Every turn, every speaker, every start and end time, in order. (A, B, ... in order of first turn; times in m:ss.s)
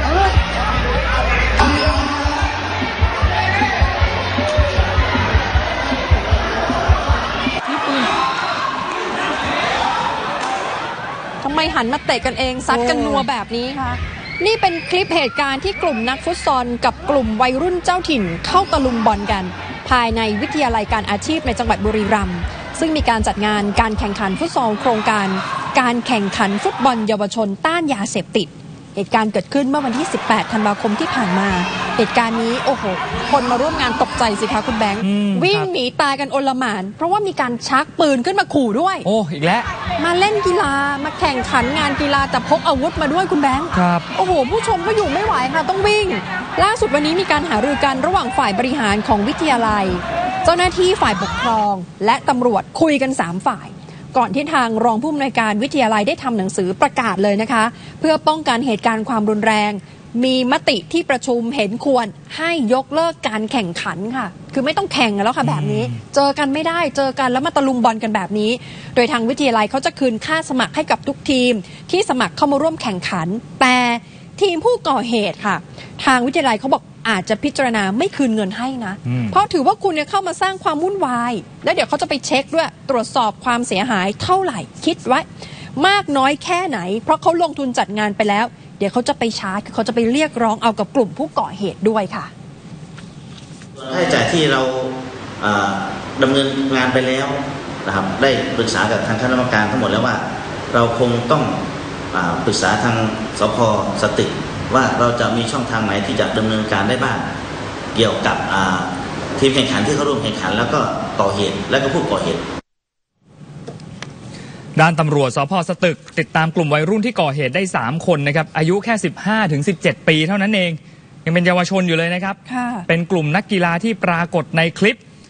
0:11.4-0:39.1 A
0:12.8-0:13.2 B
0:35.0-0:35.7 B
0:39.0-0:39.7 B
0:40.0-1:32.3 A
0:43.7-0:44.1 B
1:05.4-1:06.0 B
1:33.8-1:41.6 C
1:42.1-1:47.3 C
1:48.0-1:52.4 C
1:54.8-2:05.0 B
2:02.5-2:02.9 A